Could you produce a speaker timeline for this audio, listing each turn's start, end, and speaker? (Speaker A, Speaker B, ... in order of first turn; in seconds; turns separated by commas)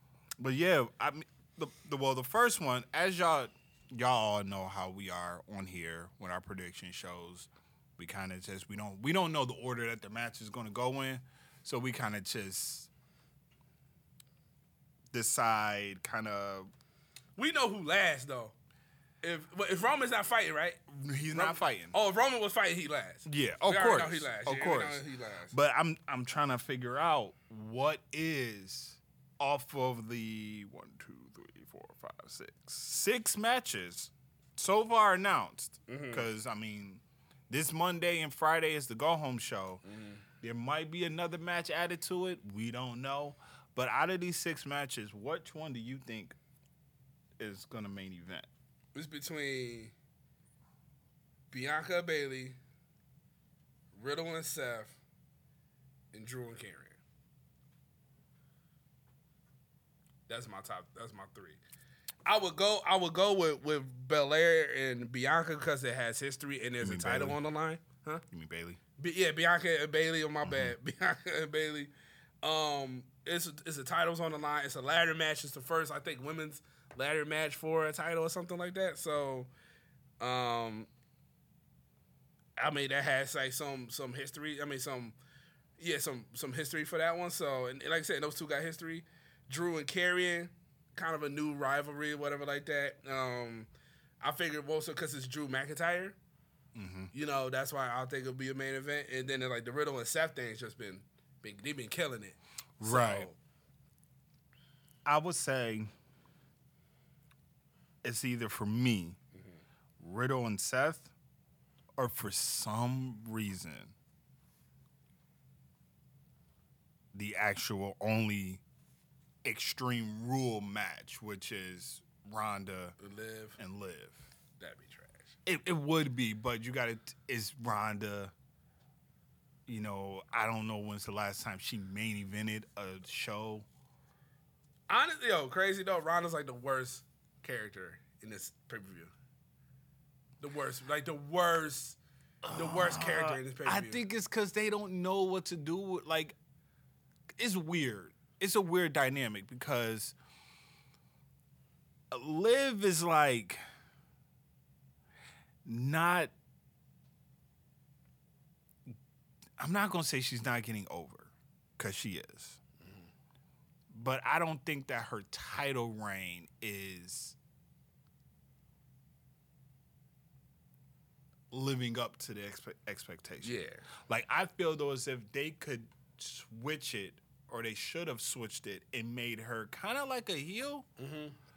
Speaker A: 0.4-12.9, Speaker A: 15.1-16.7, Speaker B: 17.4-18.5, Speaker B: 19.2-20.8, Speaker A: 20.9-21.9, Speaker B: 21.3-25.5, Speaker A: 23.2-39.8, Speaker B: 35.9-36.3, Speaker B: 39.9-40.2, Speaker A: 40.4-46.4, Speaker A: 47.4-48.5, Speaker B: 49.0-49.9, Speaker B: 51.5-52.6, Speaker B: 53.9-55.0, Speaker B: 56.1-57.0, Speaker B: 60.3-61.6, Speaker B: 62.3-68.2, Speaker A: 66.8-67.4, Speaker A: 68.3-68.8, Speaker B: 69.0-71.9, Speaker A: 70.4-70.8, Speaker B: 72.4-79.5, Speaker B: 80.2-80.9, Speaker B: 82.6-85.2, Speaker B: 85.8-93.7, Speaker B: 94.2-96.2, Speaker A: 96.8-97.1, Speaker B: 97.1-103.4, Speaker A: 102.8-103.3, Speaker A: 105.1-105.9, Speaker A: 108.0-109.2, Speaker A: 110.0-111.1, Speaker A: 112.0-113.9, Speaker A: 117.1-118.6, Speaker A: 119.4-123.0, Speaker B: 123.0-123.6, Speaker A: 123.6-124.2, Speaker B: 124.6-125.3, Speaker A: 125.5-128.3, Speaker A: 129.7-133.7, Speaker B: 134.9-139.1, Speaker B: 140.4-142.0, Speaker A: 142.4-146.3, Speaker B: 142.5-144.0, Speaker A: 147.4-150.2, Speaker A: 152.1-153.6, Speaker A: 155.7-156.3, Speaker A: 159.6-162.6, Speaker A: 163.9-167.4, Speaker A: 171.5-173.5, Speaker B: 173.4-173.8, Speaker A: 174.1-180.9, Speaker B: 181.0-181.4